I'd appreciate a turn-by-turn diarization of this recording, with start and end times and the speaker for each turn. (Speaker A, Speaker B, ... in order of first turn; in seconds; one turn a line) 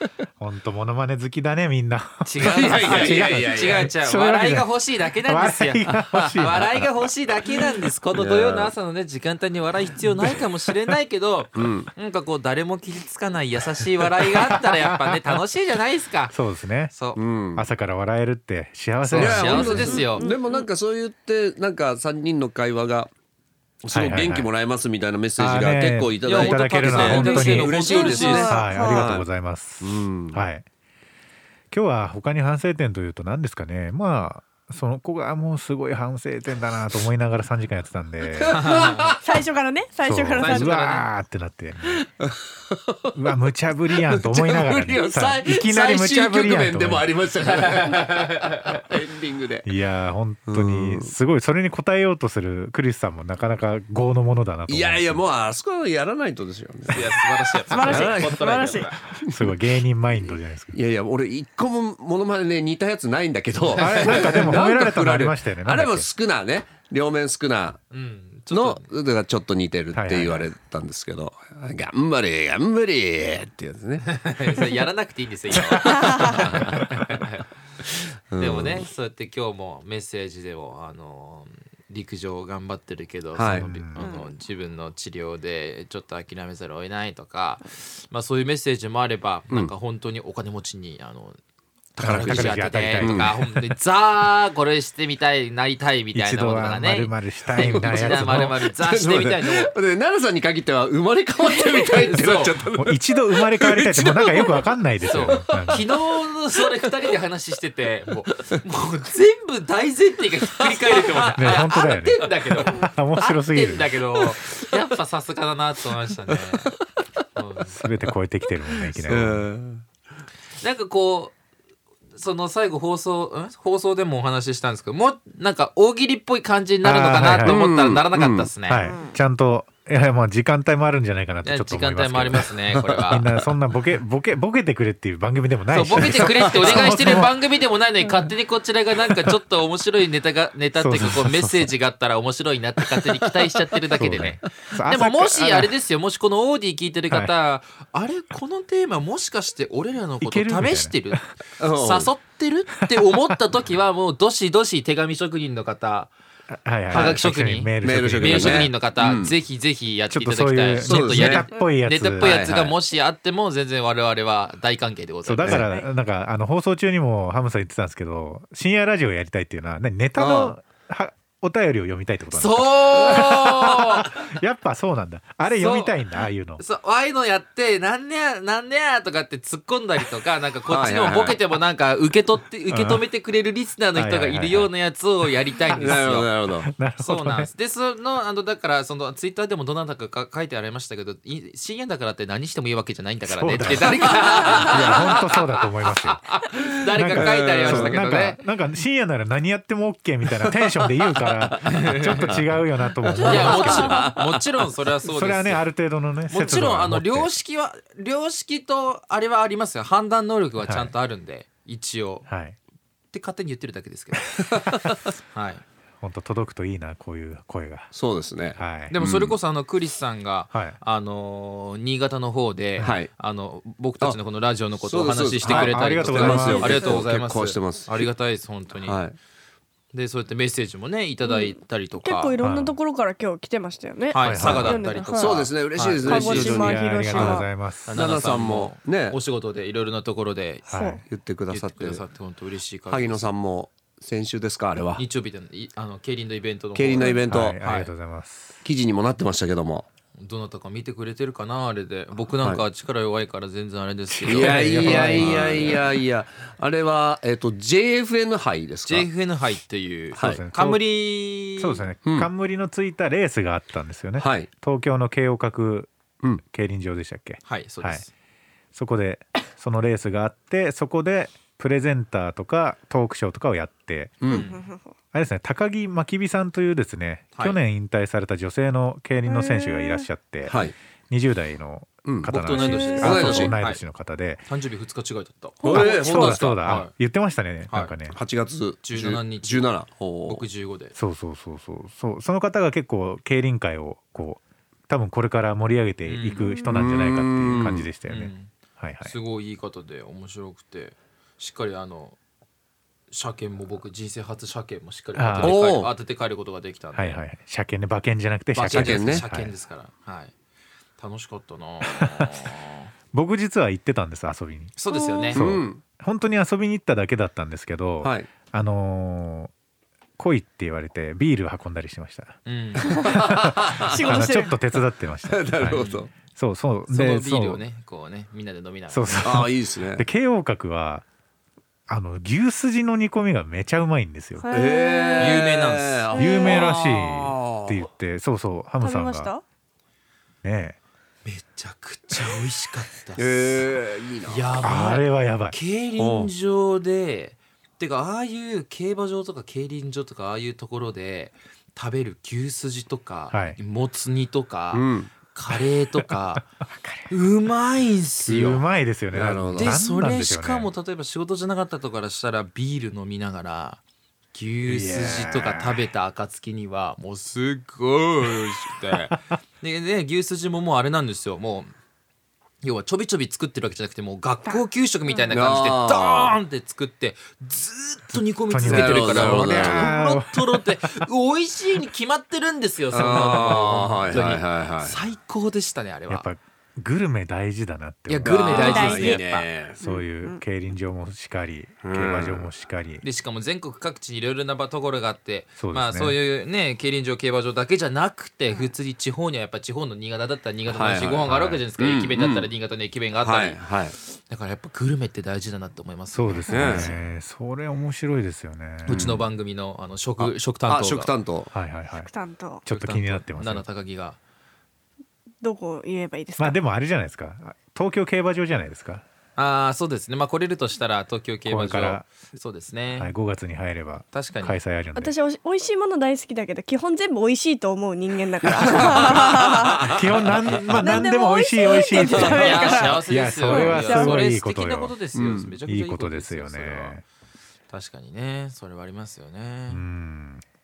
Speaker A: 0.4-4.7
Speaker B: 2.2-16.4
Speaker C: 2.4-3.9
Speaker A: 5.2-6.9
Speaker C: 8.1-8.7
Speaker C: 11.6-11.9
Speaker A: 14.5-15.4
Speaker A: 16.3-16.9
Speaker B: 16.9-17.2
Speaker C: 17.1-17.6
Speaker A: 17.6-20.0
Speaker B: 19.1-20.3
Speaker C: 19.1-23.1
Speaker D: 19.8-20.7
Speaker C: 23.8-29.2
Speaker A: 23.9-24.5
Speaker A: 25.4-27.7
Speaker B: 26.2-28.6
Speaker D: 27.0-29.1
Speaker A: 28.3-30.6
Speaker C: 29.8-30.4
Speaker A: 31.7-38.8
Speaker C: 38.3-39.2
Speaker B: 38.5-39.2
Speaker D: 39.2-40.8
Speaker A: 40.0-42.0
Speaker B: 40.4-41.1
Speaker C: 41.9-43.1
Speaker A: 43.1-47.0
Speaker C: 44.0-49.7
Speaker B: 47.4-48.9
Speaker A: 49.6-55.2
Speaker C: 50.5-51.1
Speaker C: 54.7-59.6
Speaker B: 56.9-59.0
Speaker D: 57.7-58.9
Speaker A: 57.7-58.1
Speaker A: 59.3-60.8
Speaker C: 60.7-67.8
Speaker B: 63.7-64.4
Speaker A: 63.8-66.1
Speaker B: 67.9-68.9
Speaker C: 68.5-74.2
Speaker A: 69.9-70.5
Speaker B: 74.0-77.5
Speaker C: 75.5-77.0
Speaker D: 75.9-76.4
Speaker C: 78.3-78.8
Speaker B: 78.4-91.4
Speaker C: 83.3-83.7
Speaker A: 83.5-84.1
Speaker D: 84.0-84.3
Speaker B: 91.9-99.7
Speaker A: 92.0-93.5
Speaker C: 92.0-93.3
Speaker A: 96.1-98.6
Speaker C: 97.5-106.0
Speaker B: 101.9-102.6
Speaker A: 102.8-105.8
Speaker B: 105.0-116.7
Speaker C: 106.6-107.1
Speaker C: 110.5-111.6
Speaker A: 111.3-113.9
Speaker B: 117.3-117.8
Speaker A: 117.7-119.5
Speaker C: 119.1-119.8
Speaker B: 120.6-121.3
Speaker B: 122.1-128.9
Speaker A: 126.8-127.6
Speaker C: 127.4-128.5
Speaker A: 128.7-132.5
Speaker D: 128.8-129.2
Speaker B: 131.4-133.3
Speaker C: 132.7-133.2
Speaker A: 133.1-137.3
Speaker B: 135.7-156.1
Speaker C: 136.0-137.2
Speaker A: 140.8-141.7
Speaker A: 143.9-145.7
Speaker A: 150.2-151.2
Speaker C: 151.6-152.1
Speaker A: 152.9-153.4
Speaker A: 156.5-158.7
Speaker B: 156.9-165.7
Speaker C: 157.8-159.3
Speaker A: 160.1-162.3
Speaker C: 160.8-161.5
Speaker C: 162.2-162.7
Speaker A: 165.2-176.6
Speaker C: 170.2-170.5
Speaker B: 172.3-174.3
Speaker B: 175.5-175.9
Speaker B: 176.6-186.3
Speaker C: 180.7-181.4
Speaker A: 182.7-183.0
Speaker A: 183.9-184.7
Speaker C: 185.7-186.7
Speaker A: 186.6-187.5
Speaker B: 186.9-198.4
Speaker A: 193.2-196.4
Speaker C: 193.7-194.8
Speaker A: 196.9-204.0
Speaker C: 197.2-198.0
Speaker C: 200.5-202.4
Speaker B: 201.6-202.5
Speaker D: 203.1-204.1
Speaker C: 203.2-204.5
Speaker B: 203.2-205.6
Speaker A: 205.0-207.3
Speaker B: 206.3-212.2
Speaker A: 210.6-210.9
Speaker A: 212.3-212.6
Speaker B: 213.1-215.6
Speaker C: 214.3-214.9
Speaker A: 216.0-217.9
Speaker C: 217.9-219.4
Speaker A: 218.5-219.0
Speaker B: 218.9-229.0
Speaker C: 222.8-223.1
Speaker C: 224.8-228.1
Speaker A: 225.4-226.9
Speaker D: 226.4-227.0
Speaker C: 228.8-229.2
Speaker B: 229.9-232.3
Speaker D: 231.2-235.5
Speaker A: 232.4-232.8
Speaker B: 234.1-236.5
Speaker A: 234.2-234.8
Speaker C: 235.1-239.2
Speaker D: 236.0-237.5
Speaker A: 236.3-238.0
Speaker B: 237.8-240.6
Speaker A: 240.7-241.0
Speaker D: 240.7-241.0
Speaker C: 241.1-242.0
Speaker B: 241.5-243.3
Speaker C: 242.9-245.0
Speaker B: 245.0-247.9
Speaker C: 246.7-247.6
Speaker A: 247.2-248.6
Speaker C: 248.6-249.8
Speaker B: 250.2-255.8
Speaker A: 254.1-255.9
Speaker C: 254.2-259.1
Speaker B: 258.9-261.9
Speaker A: 260.1-260.8
Speaker C: 260.1-260.4
Speaker A: 261.6-265.9
Speaker C: 264.2-264.5
Speaker A: 266.4-268.0
Speaker B: 267.4-268.1
Speaker A: 268.7-274.2
Speaker C: 274.2-274.5
Speaker B: 274.2-274.6
Speaker D: 274.3-274.9
Speaker A: 275.1-284.4
Speaker D: 279.2-280.1
Speaker C: 280.4-280.7
Speaker C: 282.0-282.3
Speaker B: 282.3-283.8
Speaker D: 282.6-283.0
Speaker C: 283.0-283.5
Speaker B: 284.5-286.9
Speaker D: 285.6-286.1
Speaker A: 285.6-288.2
Speaker C: 285.6-286.8
Speaker C: 288.1-290.4
Speaker B: 288.8-289.7
Speaker B: 290.3-290.9
Speaker A: 290.9-299.1
Speaker B: 296.1-296.5
Speaker C: 296.7-297.9
Speaker B: 298.1-298.5
Speaker B: 299.0-302.2
Speaker B: 303.1-307.2
Speaker A: 305.1-305.6
Speaker C: 305.4-305.9
Speaker A: 306.9-309.5
Speaker B: 308.5-310.3
Speaker C: 308.7-309.2
Speaker B: 311.0-312.9
Speaker A: 311.8-312.4
Speaker A: 313.1-314.7
Speaker B: 314.8-315.5
Speaker D: 314.9-315.4
Speaker A: 315.3-319.5
Speaker C: 315.3-315.8
Speaker C: 318.0-318.3
Speaker A: 320.2-327.6
Speaker B: 322.4-323.2
Speaker D: 322.9-323.1
Speaker C: 323.1-324.3
Speaker D: 323.8-324.5
Speaker C: 325.3-326.1
Speaker B: 325.6-326.0
Speaker B: 326.9-329.3
Speaker A: 328.9-331.0
Speaker C: 329.2-330.0
Speaker A: 331.9-334.4
Speaker D: 334.4-335.4
Speaker C: 334.5-337.8
Speaker B: 335.2-336.7
Speaker D: 336.2-336.6
Speaker A: 336.2-339.3
Speaker D: 338.8-339.4
Speaker A: 340.4-340.8
Speaker B: 341.2-343.6
Speaker C: 343.2-344.6
Speaker B: 344.3-356.4
Speaker A: 344.6-345.6
Speaker C: 345.9-346.3
Speaker A: 353.3-353.6
Speaker C: 354.7-355.1
Speaker B: 357.1-358.6
Speaker A: 358.2-360.7
Speaker C: 359.1-359.8
Speaker B: 359.6-363.8
Speaker B: 364.3-371.7
Speaker A: 364.6-365.8
Speaker B: 372.6-386.3
Speaker D: 374.4-375.3
Speaker C: 375.3-376.4
Speaker A: 378.1-380.8
Speaker C: 378.6-379.9
Speaker C: 382.9-385.0
Speaker A: 386.1-388.9
Speaker B: 388.1-389.5
Speaker C: 388.2-390.0
Speaker D: 388.5-389.2
Speaker A: 389.8-393.0
Speaker D: 389.8-390.4
Speaker C: 391.8-392.5
Speaker B: 393.0-407.0
Speaker A: 395.6-396.2
Speaker C: 400.7-402.5
Speaker C: 403.2-403.9
Speaker A: 406.1-409.1
Speaker C: 406.5-406.9
Speaker C: 408.9-409.2
Speaker B: 408.9-411.1
Speaker C: 410.2-411.5
Speaker A: 411.5-412.1
Speaker D: 412.0-412.6
Speaker A: 412.6-413.6
Speaker B: 412.7-414.2
Speaker D: 415.4-416.6
Speaker A: 416.4-419.0
Speaker B: 419.4-423.1
Speaker A: 421.4-422.1
Speaker A: 422.9-425.1
Speaker B: 424.1-424.6
Speaker D: 424.9-429.9
Speaker C: 428.4-430.0
Speaker A: 428.8-434.9
Speaker D: 430.7-434.2
Speaker B: 431.9-437.0
Speaker C: 435.1-435.5
Speaker A: 435.6-437.0
Speaker B: 437.7-439.8
Speaker A: 439.7-440.4